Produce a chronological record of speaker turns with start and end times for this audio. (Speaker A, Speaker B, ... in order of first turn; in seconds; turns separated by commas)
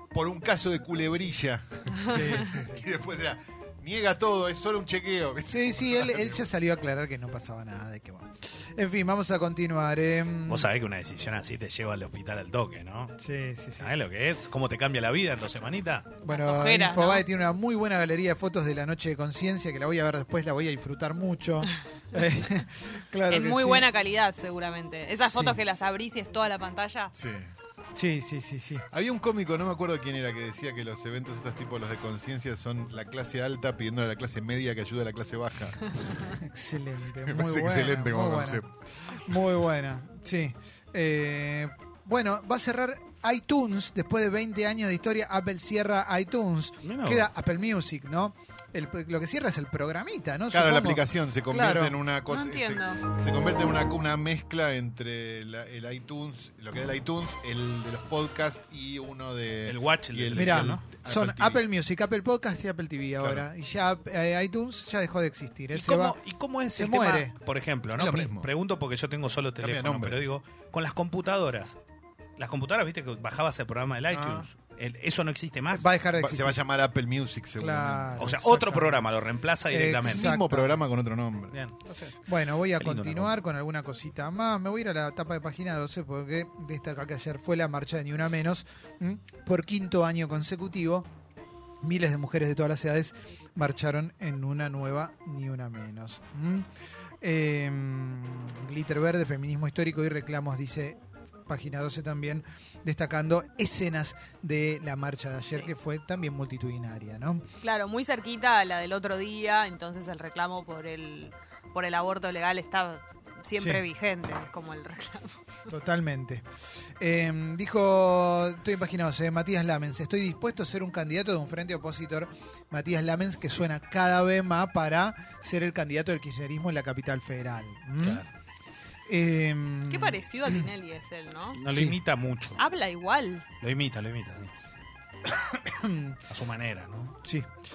Speaker A: 0.1-6.5, Speaker B: 2.0-2.9, Speaker B: 5.5-10.7, Speaker C: 10.5-13.1, Speaker B: 13.2-13.9, Speaker C: 13.8-16.1, Speaker B: 16.2-23.9, Speaker D: 16.3-17.3, Speaker D: 23.3-27.1, Speaker B: 25.2-25.6, Speaker A: 27.1-27.5, Speaker B: 27.9-28.9, Speaker A: 28.9-36.1, Speaker B: 36.2-52.0, Speaker A: 37.3-39.5, Speaker C: 46.8-47.3, Speaker A: 50.5-61.6, Speaker D: 52.3-53.0, Speaker C: 59.6-60.8, Speaker B: 60.4-66.2, Speaker A: 63.2-63.5, Speaker C: 65.7-71.8, Speaker B: 66.8-67.3, Speaker A: 67.9-68.5, Speaker A: 69.6-70.2, Speaker C: 72.4-75.9, Speaker A: 74.1-74.5, Speaker B: 75.7-76.6, Speaker A: 76.2-78.3, Speaker B: 77.6-79.1, Speaker C: 78.2-80.3, Speaker B: 79.7-80.8, Speaker A: 80.0-81.6, Speaker C: 81.5-83.3, Speaker B: 82.3-91.1, Speaker B: 91.8-96.7, Speaker B: 97.2-107.4, Speaker D: 107.6-115.4, Speaker B: 115.7-116.4, Speaker B: 117.0-128.2, Speaker C: 128.0-128.3, Speaker B: 129.1-130.7, Speaker D: 129.9-131.6, Speaker C: 131.5-132.6, Speaker B: 131.7-132.0, Speaker D: 132.6-133.5, Speaker C: 133.6-134.5, Speaker B: 135.4-136.2, Speaker C: 136.3-137.2